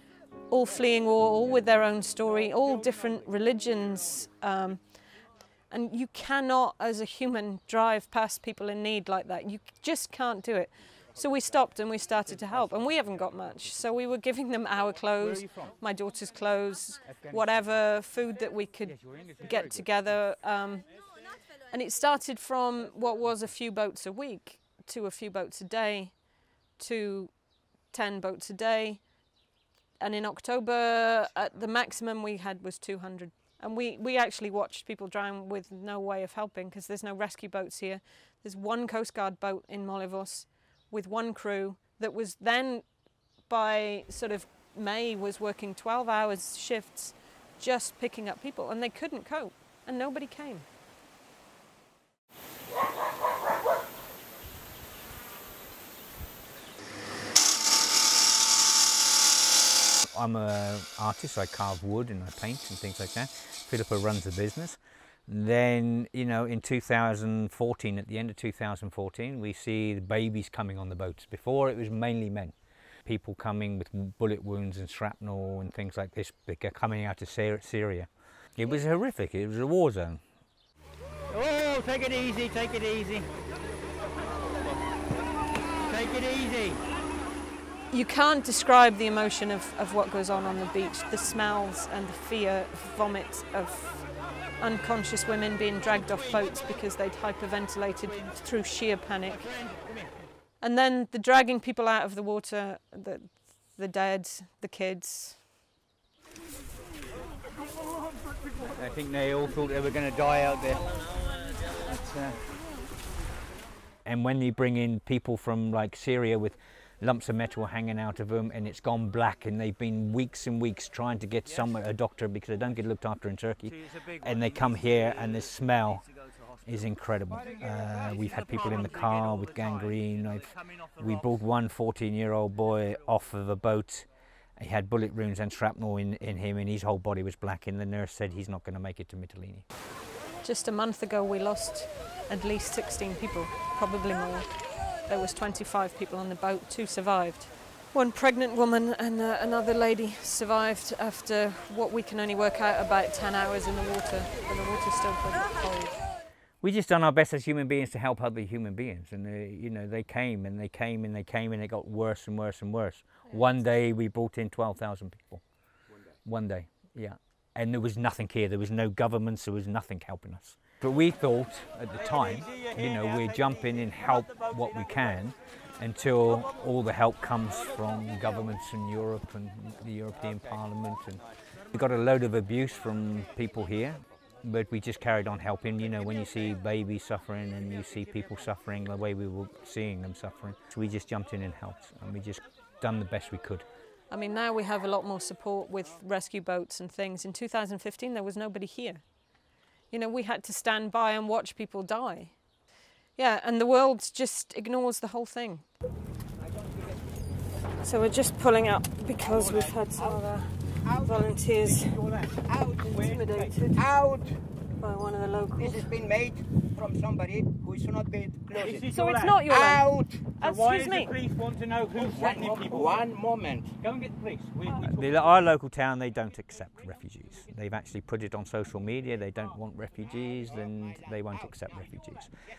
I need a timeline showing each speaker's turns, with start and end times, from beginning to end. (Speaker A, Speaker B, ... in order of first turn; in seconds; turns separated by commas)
Speaker A: 0.5-5.0, Speaker A: 5.7-21.0, Speaker B: 15.2-15.7, Speaker B: 18.9-19.7, Speaker A: 21.6-29.3, Speaker A: 30.0-50.7, Speaker C: 60.1-80.2, Speaker B: 81.3-83.2, Speaker C: 81.9-83.0, Speaker B: 85.9-86.7, Speaker A: 87.9-99.5, Speaker A: 100.6-105.4, Speaker C: 108.8-110.9, Speaker C: 111.9-112.3, Speaker C: 114.0-126.0, Speaker C: 126.7-139.7, Speaker B: 127.4-131.3, Speaker A: 140.4-156.0, Speaker C: 156.6-165.5, Speaker C: 166.2-193.7, Speaker B: 172.1-173.5, Speaker A: 194.1-199.1, Speaker A: 199.9-202.4, Speaker A: 203.2-205.7, Speaker A: 207.8-212.0, Speaker D: 210.8-211.2, Speaker B: 211.6-212.3, Speaker D: 212.5-213.2, Speaker A: 212.7-213.8, Speaker B: 213.1-213.5, Speaker D: 213.7-214.4, Speaker A: 214.8-215.9, Speaker D: 215.6-218.9, Speaker B: 218.5-219.4, Speaker A: 218.9-219.8, Speaker D: 219.4-220.2, Speaker B: 220.4-223.1, Speaker A: 220.4-221.1, Speaker D: 222.0-223.7, Speaker B: 223.8-225.2, Speaker C: 224.8-232.3